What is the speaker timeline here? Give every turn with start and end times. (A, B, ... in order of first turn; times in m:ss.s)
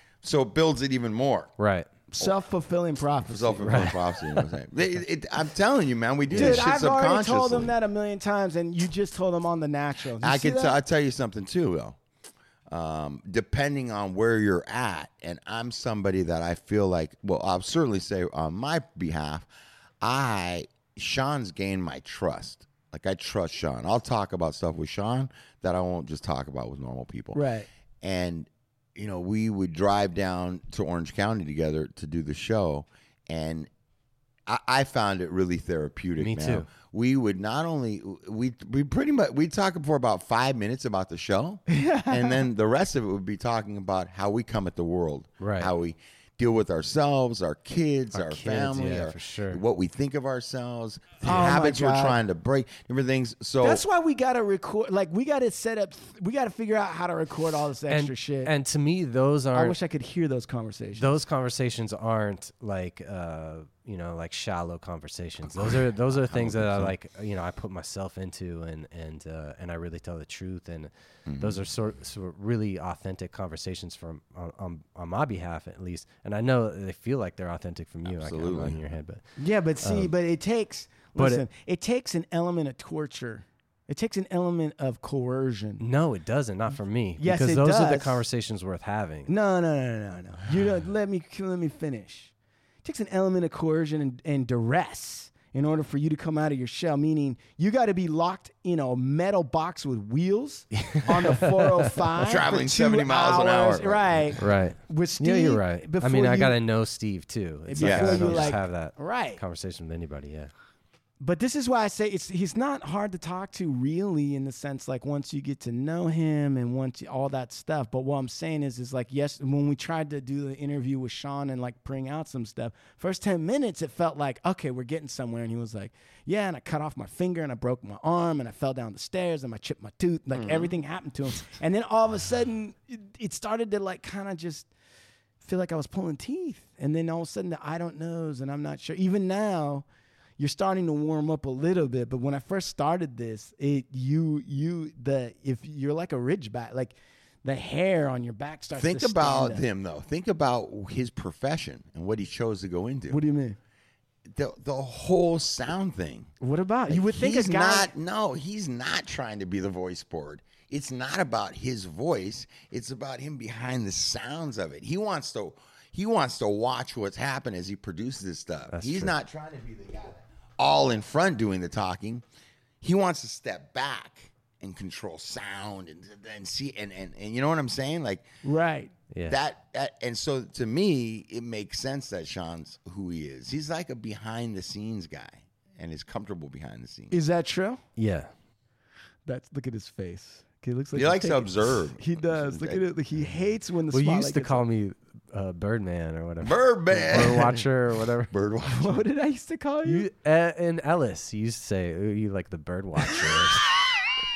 0:00.2-0:01.5 A
0:01.6-0:01.9 B
0:02.1-0:03.9 C
0:03.2-0:07.7 A
0:03.6-0:04.4 B
0:06.3-0:06.7 B
0:06.3-0:10.8 C
0:10.2-0:12.0 A
0:12.7-0:19.5 A
0:20.0-0:27.4 A
0:27.3-0:27.7 C
0:28.0-0:33.7 A
0:34.5-0:53.8 A
0:36.2-0:36.7 B
0:41.7-0:42.4 C
0:45.4-0:45.7 B
0:48.1-0:49.6 B
0:51.2-0:52.2 C
0:53.6-0:58.5 C
0:57.9-0:59.8 B
0:59.5-1:01.2 C
1:01.0-1:19.2 B
1:05.4-1:06.9 A
1:11.2-1:11.6 A
1:18.0-1:18.8 A
1:19.4-1:25.8 C
1:19.8-1:20.1 B
1:21.2-1:21.4 B
1:25.8-1:29.3 B
1:27.2-1:28.2 C
1:29.3-1:32.3 C
1:32.8-1:46.5 C
1:40.8-1:41.9 B
1:42.2-1:44.4 A
1:44.4-1:50.5 B
1:47.7-1:49.4 C
1:47.8-1:48.6 A
1:51.2-2:14.7 C
2:10.3-2:10.7 A
2:15.4-2:19.8 C
2:20.4-2:29.6 C
2:28.7-2:33.2 A
2:33.1-2:33.6 C
2:34.3-2:36.3 A
2:36.4-2:37.9 C
2:36.9-2:52.2 A
2:48.7-2:49.1 B
2:52.8-2:58.3 A
2:58.4-2:58.9 C
2:59.1-2:59.4 B
2:59.3-3:07.1 A
3:07.1-3:07.8 C
3:08.0-3:08.3 B
3:09.2-3:14.6 C
3:10.9-3:12.8 A
3:13.9-3:18.3 B
3:16.4-3:17.7 A
3:18.3-3:19.0 A
3:18.7-3:20.1 C
3:19.8-3:23.7 B